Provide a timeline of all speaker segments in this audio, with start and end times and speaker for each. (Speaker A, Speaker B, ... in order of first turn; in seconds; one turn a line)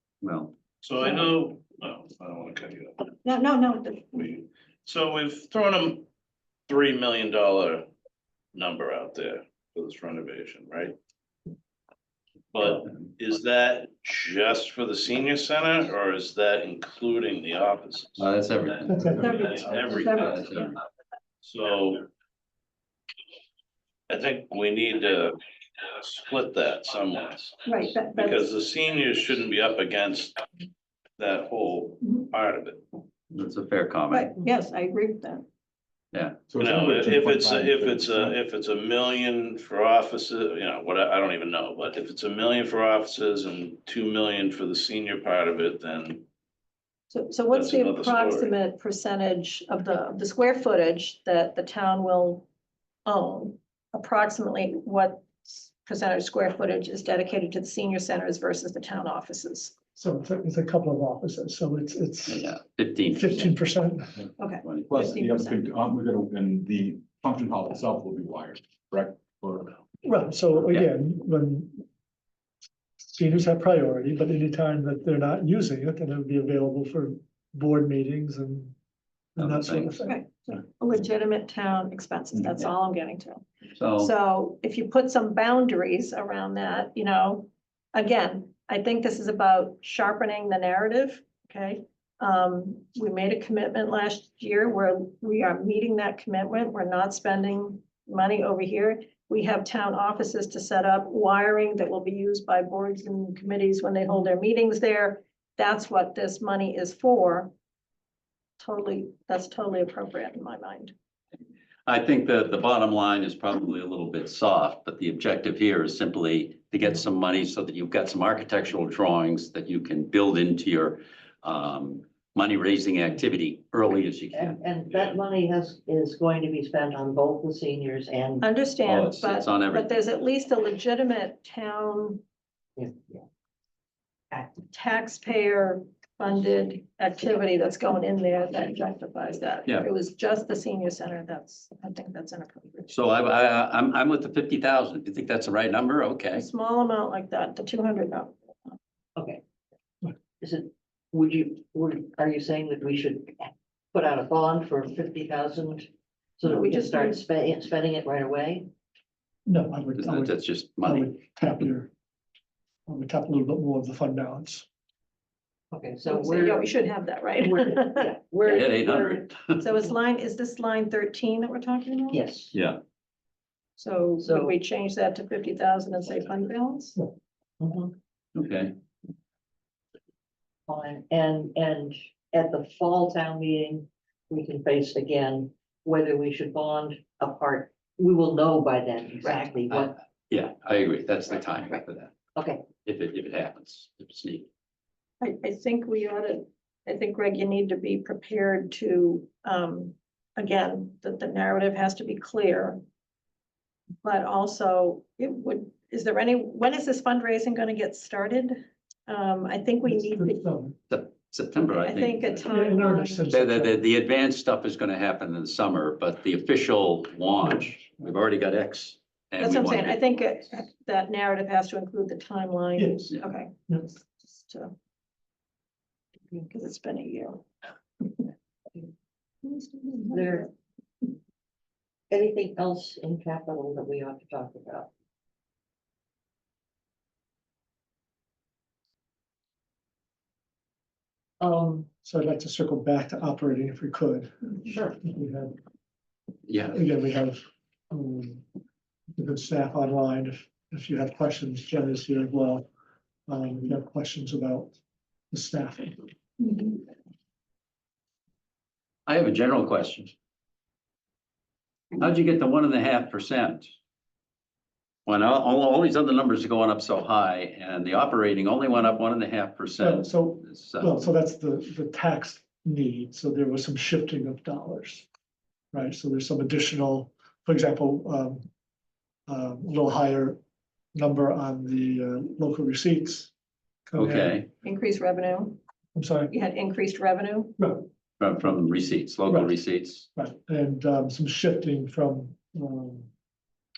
Speaker A: 0.2-0.5
Speaker B: 0.8-3.0
Speaker C: 3.2-4.2
Speaker B: 4.1-6.0
Speaker B: 6.7-7.8
Speaker B: 8.5-10.9
Speaker B: 12.5-18.2
Speaker A: 18.2-19.1
Speaker D: 18.9-19.2
Speaker C: 19.2-20.4
Speaker B: 19.3-20.5
Speaker A: 20.0-20.8
Speaker B: 21.4-22.1
Speaker B: 24.1-25.3
Speaker B: 26.0-30.4
Speaker C: 27.6-28.4
Speaker B: 31.2-32.8
Speaker A: 33.3-34.3
Speaker C: 34.1-35.4
Speaker A: 36.1-36.4
Speaker E: 36.5-38.4
Speaker B: 36.6-46.2
Speaker C: 47.1-52.5
Speaker B: 47.5-48.5
Speaker C: 53.0-59.7
Speaker D: 60.0-62.5
Speaker A: 62.3-63.5
Speaker D: 63.1-64.2
Speaker C: 64.4-65.6
Speaker A: 64.6-65.0
Speaker E: 64.9-69.8
Speaker D: 70.0-71.8
Speaker A: 70.5-70.9
Speaker D: 73.1-78.7
Speaker D: 79.3-80.2
Speaker A: 79.4-80.0
Speaker C: 80.0-83.4
Speaker A: 83.8-84.1
Speaker C: 84.0-107.5
Speaker C: 108.6-110.9
Speaker A: 111.8-124.6
Speaker F: 124.3-128.4
Speaker B: 124.9-125.2
Speaker C: 128.4-132.2
Speaker A: 128.8-129.9
Speaker F: 132.8-133.2
Speaker C: 134.4-142.9
Speaker A: 142.9-146.4
Speaker C: 146.3-148.7
Speaker F: 149.2-149.4
Speaker F: 150.4-158.7
Speaker C: 156.4-157.2
Speaker D: 159.4-161.9
Speaker A: 160.0-161.7
Speaker D: 162.9-164.7
Speaker F: 165.7-166.6
Speaker C: 166.1-168.1
Speaker F: 167.4-169.2
Speaker A: 168.4-169.7
Speaker C: 169.6-172.2
Speaker F: 172.1-172.5
Speaker A: 172.5-172.8
Speaker C: 173.8-177.0
Speaker F: 174.2-174.6
Speaker F: 177.6-177.9
Speaker A: 178.3-178.7
Speaker F: 180.7-189.9
Speaker A: 189.7-192.1
Speaker F: 192.3-192.7
Speaker A: 192.8-194.5
Speaker C: 195.2-202.8
Speaker C: 204.0-210.4
Speaker D: 209.8-210.8
Speaker A: 210.9-212.5
Speaker C: 211.8-213.3
Speaker D: 212.5-213.8
Speaker A: 213.3-220.1
Speaker D: 217.4-218.1
Speaker C: 219.4-224.7
Speaker D: 222.8-223.1
Speaker C: 226.4-227.4
Speaker C: 229.4-230.5
Speaker F: 230.1-230.5
Speaker F: 232.1-234.9
Speaker F: 241.4-241.9
Speaker D: 242.0-245.5
Speaker F: 244.7-245.0
Speaker A: 246.5-246.8
Speaker D: 246.7-248.4
Speaker D: 249.2-252.7
Speaker D: 253.3-254.8
Speaker D: 255.3-256.0
Speaker C: 256.4-256.8
Speaker A: 259.1-260.1
Speaker A: 261.9-263.7
Speaker A: 265.1-271.0
Speaker D: 269.8-275.1
Speaker D: 275.7-278.5
Speaker D: 279.3-280.4
Speaker D: 280.9-283.3
Speaker D: 283.9-284.4
Speaker A: 284.0-284.5
Speaker C: 284.6-285.6
Speaker D: 285.9-286.3
Speaker C: 286.3-287.6
Speaker D: 287.6-287.9
Speaker A: 288.2-290.0
Speaker D: 289.3-289.5
Speaker D: 290.1-293.1